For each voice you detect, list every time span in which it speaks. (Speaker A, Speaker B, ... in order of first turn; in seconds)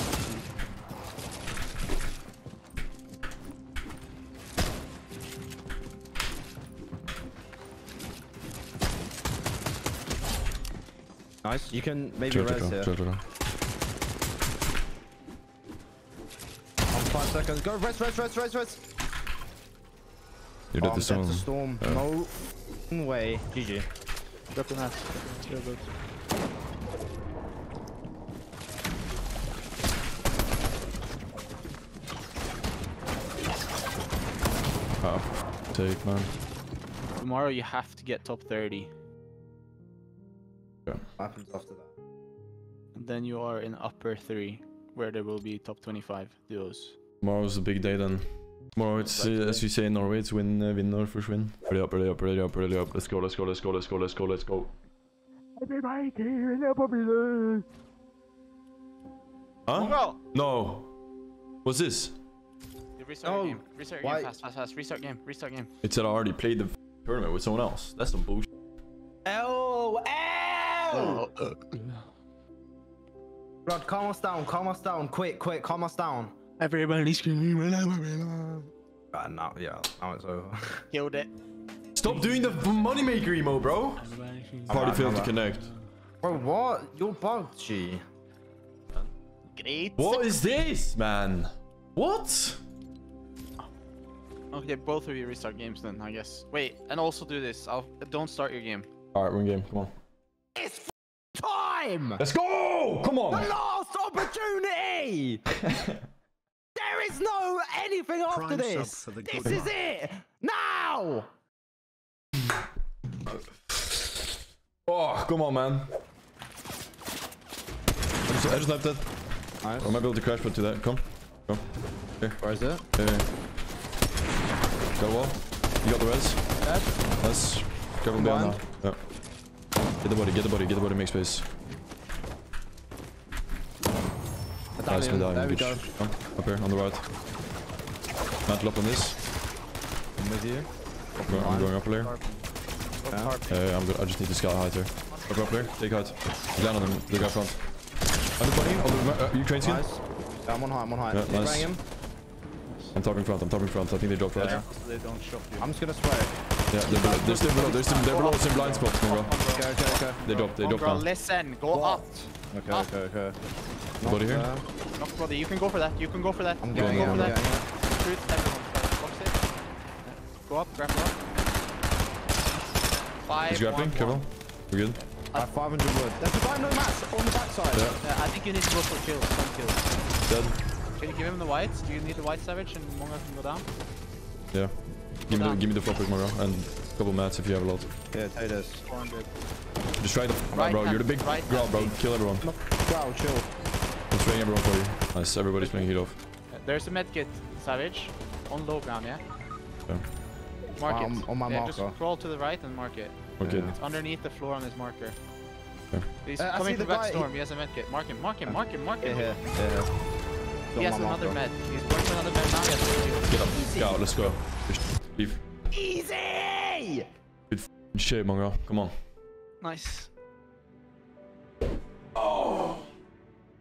Speaker A: 11.4-12.9, 16.9-18.8, 20.8-23.9, 41.2-41.9, 56.6-57.6, 63.2-64.3, 69.2-71.3, 73.7-76.3, 79.1-80.8, 84.7-85.4, 86.2-88.0, 100.5-102.2, 103.3-105.7, 106.8-111.3, 119.6-120.0, 122.4-122.9, 126.6-127.0, 128.2-128.6, 134.8-135.9, 140.2-141.8, 143.1-143.3, 149.6-151.8, 154.3-154.7, 155.6-156.4, 159.5-160.2, 161.7-163.4, 164.0-164.7, 166.6-167.7, 175.3-178.0, 188.1-188.8, 192.4-193.5, 200.9-202.0, 203.4-203.8, 206.4-207.3, 208.5-209.9, 210.7-211.4, 213.5-214.3, 215.7-217.1
Speaker B: 12.3-13.2, 20.7-22.1, 35.0-36.4, 47.2-54.7, 59.7-60.9, 61.6-62.1, 65.8-68.5, 82.0-84.0, 84.7-85.7, 90.0-92.6, 99.1-99.9, 102.2-103.5, 113.7-114.2, 114.9-115.9, 118.3-119.2, 119.8-121.6, 122.2-123.3, 125.0-126.7, 127.2-129.1, 130.0-131.5, 134.9-137.1, 138.5-139.2, 141.3-142.1, 143.5-147.6, 148.4-149.8, 151.1-151.7, 152.9-154.6, 156.7-159.3, 160.2-161.1, 164.0-164.5, 166.7-167.4, 173.5-175.0, 177.8-178.0, 180.3-180.6, 184.5-187.9, 190.0-192.5, 194.1-196.2, 203.4-203.7, 213.3-215.4, 217.5-218.9, 222.2-222.7
Speaker C: 24.5-25.9, 37.2-38.9, 42.9-47.0, 49.0-49.7, 55.6-56.9, 59.7-60.2, 63.0-65.7, 70.9-71.9, 76.6-78.7, 80.9-81.3, 82.0-82.6, 84.0-85.8, 89.5-90.3, 94.5-98.9, 141.8-142.4, 143.0-143.6, 145.1-145.3, 152.7-153.0, 154.4-155.8, 156.9-162.1, 165.0-169.4, 170.0-171.2, 173.2-174.2, 175.0-175.5, 178.0-179.9, 181.0-183.7, 185.3-185.6, 188.8-189.3, 190.5-192.0, 196.5-199.2, 200.8-203.2, 203.8-205.2, 206.2-209.3, 210.8-213.3, 219.6-220.1